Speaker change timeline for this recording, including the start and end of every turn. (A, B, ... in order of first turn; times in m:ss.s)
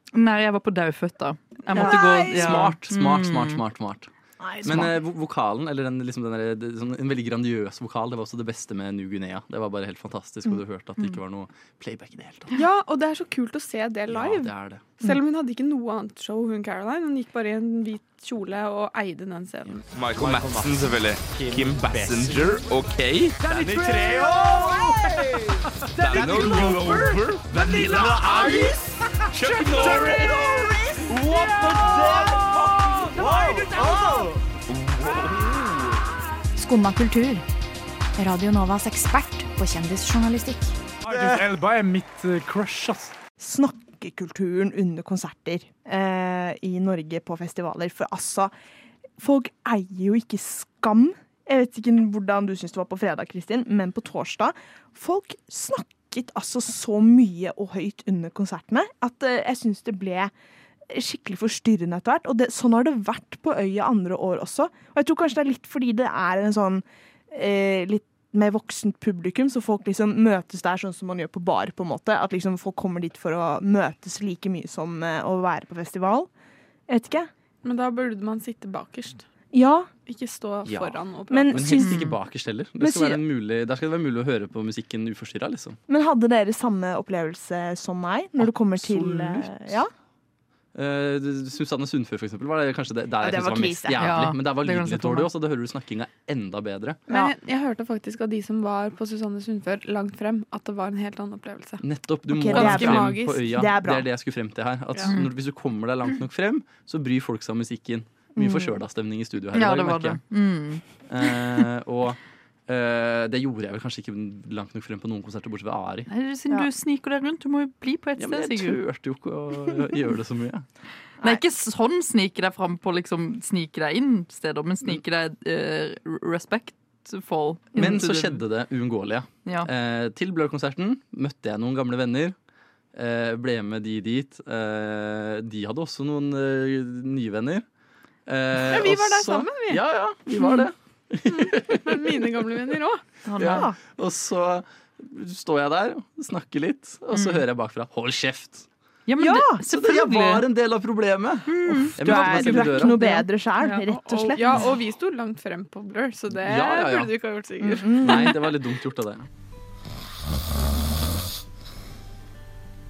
0:00.1-0:03.6 A
0:01.7-0:02.7 B
0:01.8-0:04.1 C
0:04.4-0:04.9 B
0:04.6-0:12.5 C
0:12.5-0:19.8 D
0:14.1-0:14.8 C
0:19.9-0:28.8 E
0:21.9-0:22.2 F
0:23.5-0:25.3 F
0:26.0-0:28.8 F
0:29.3-0:36.0 E
0:29.4-0:34.3 F
0:36.6-0:37.5 G
0:38.2-0:40.8 G
0:41.1-0:41.5 E
0:41.1-0:43.1 F
0:43.4-0:48.5 B
0:49.2-1:00.3 B
1:00.9-1:16.3 B
1:16.9-1:17.3 B
1:17.6-1:19.3 D
1:19.5-1:19.9 B
1:20.1-1:21.7 D
1:20.6-1:21.0 C
1:21.3-1:22.1 B
1:21.5-1:25.8 C
1:21.8-1:22.1 A
1:22.8-1:23.2 B
1:25.9-1:29.9 B
1:28.4-1:29.8 C
1:30.8-1:37.0 C
1:33.2-1:34.1 B
1:34.0-1:35.3 A
1:37.1-1:41.8 D
1:41.8-1:50.2 C
1:42.3-1:44.1 B
1:42.5-1:43.5 D
1:48.4-1:48.8 B
1:49.6-1:51.5 A
1:51.1-1:56.1 C
1:56.1-1:58.8 A
1:58.2-2:00.6 C
2:01.2-2:08.4 A
2:07.8-2:12.4 C
2:12.9-2:17.6 C
2:18.3-2:22.6 C
2:18.6-2:19.8 D
2:21.3-2:23.0 D
2:23.3-2:23.7 A
2:23.4-2:28.7 C
2:23.5-2:23.8 B
2:27.1-2:27.4 A
2:29.1-2:30.4 A
2:29.2-2:29.6 B
2:29.6-2:33.0 C
2:31.5-2:33.8 A
2:32.0-2:34.6 B
2:34.0-2:38.4 D
2:36.4-2:37.1 C
2:37.6-2:38.4 B
2:37.9-2:39.3 C